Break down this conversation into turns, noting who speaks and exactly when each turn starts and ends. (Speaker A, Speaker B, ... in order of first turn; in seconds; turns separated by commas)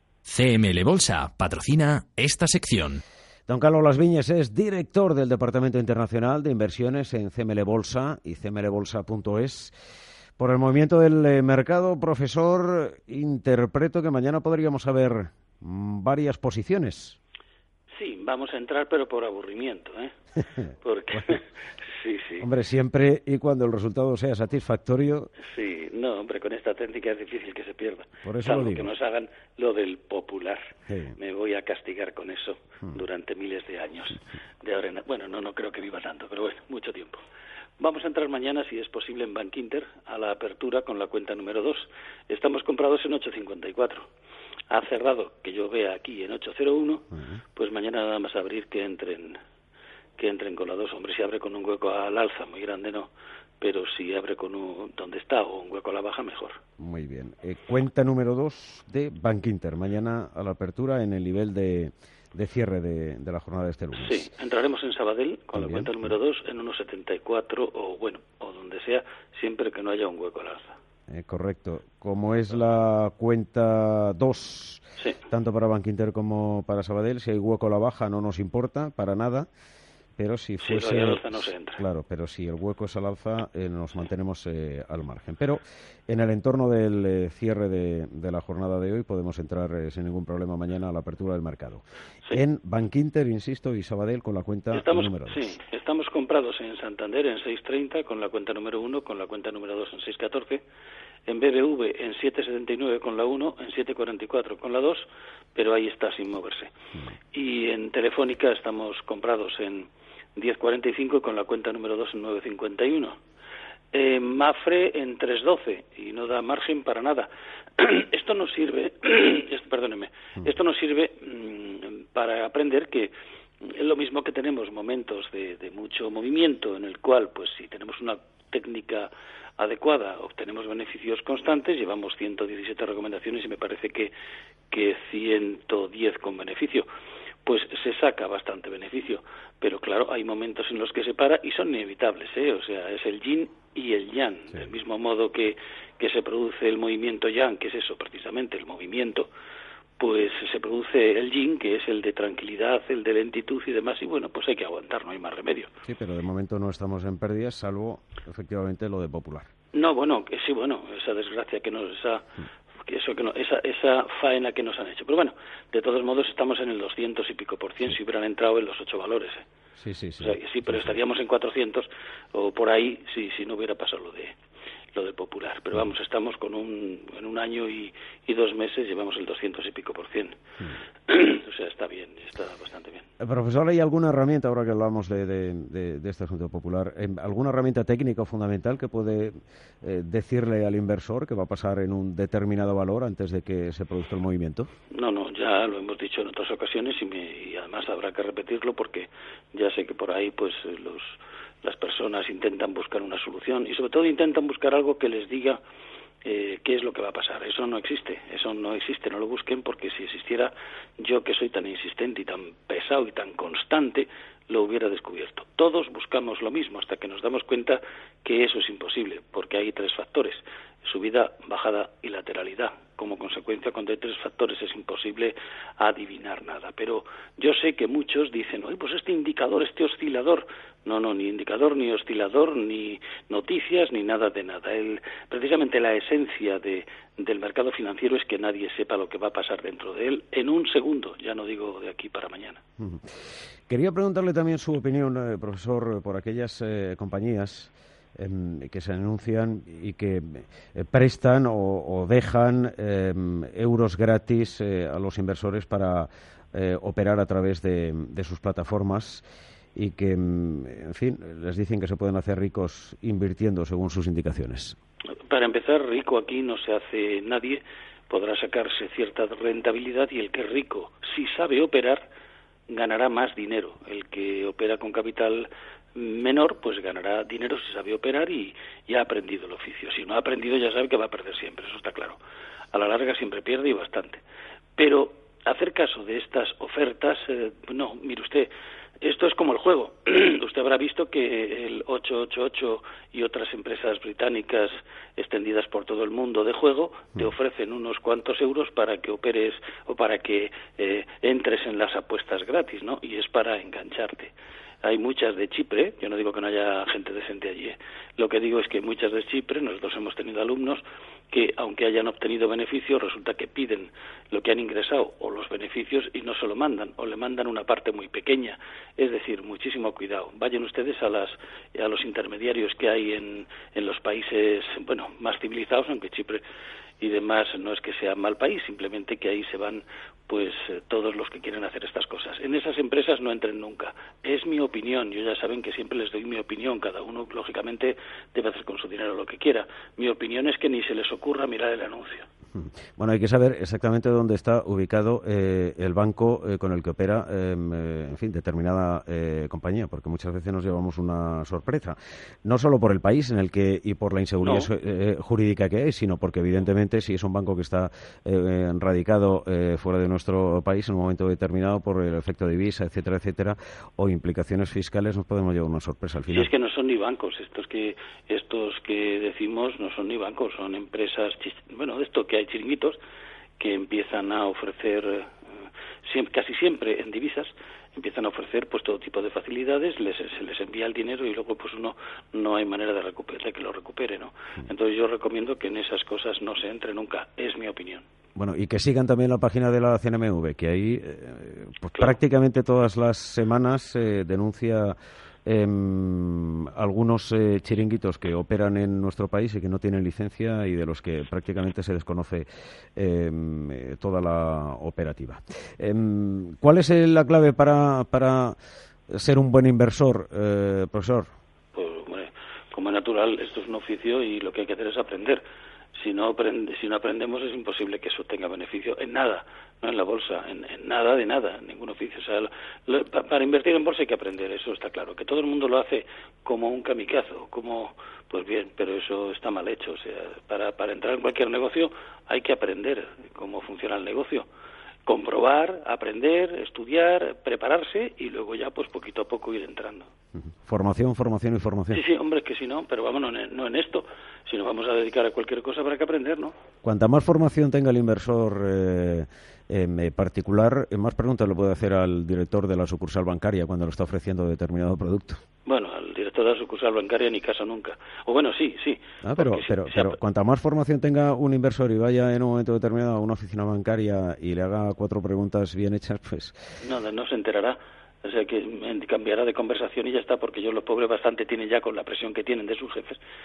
Speaker A: 0.3-3.0, Speaker B: 3.5-9.7, Speaker B: 10.4-17.2, Speaker C: 17.9-20.1, Speaker C: 20.7-22.5, Speaker B: 22.4-25.3, Speaker C: 25.4-37.2, Speaker B: 28.2-28.9, Speaker B: 30.9-31.2, Speaker C: 37.8-44.1, Speaker C: 44.7-49.4, Speaker C: 50.2-56.6, Speaker B: 56.8-64.3, Speaker C: 63.9-70.8, Speaker B: 65.5-66.2, Speaker B: 71.1-79.5, Speaker B: 80.2-95.5, Speaker C: 80.6-81.8, Speaker C: 94.7-100.6, Speaker C: 101.3-106.7, Speaker C: 107.3-113.2, Speaker C: 113.9-134.1, Speaker C: 134.7-136.9, Speaker C: 137.4-149.3, Speaker C: 150.0-155.7, Speaker B: 155.8-159.5, Speaker C: 159.7-162.3, Speaker C: 162.8-169.4, Speaker B: 169.8-170.9, Speaker C: 170.2-174.3, Speaker C: 174.9-180.3, Speaker C: 181.1-183.1, Speaker B: 183.2-194.7, Speaker C: 194.9-205.6, Speaker C: 206.2-242.6, Speaker B: 242.8-243.1, Speaker B: 243.7-259.2, Speaker B: 259.8-264.8, Speaker C: 265.2-272.1, Speaker C: 272.7-282.2, Speaker C: 282.7-284.2, Speaker C: 284.8-288.5, Speaker C: 289.0-326.4, Speaker C: 327.0-342.3, Speaker B: 342.5-366.5, Speaker C: 354.4-354.7, Speaker C: 366.3-373.0, Speaker C: 373.6-375.3, Speaker C: 376.1-388.0, Speaker B: 388.4-408.6, Speaker B: 409.1-411.3, Speaker C: 411.7-415.4, Speaker C: 415.9-434.5, Speaker C: 435.1-440.1, Speaker B: 440.6-442.0, Speaker C: 441.9-446.5, Speaker B: 446.8-455.4, Speaker C: 455.6-460.2, Speaker B: 459.2-466.7, Speaker C: 466.8-473.2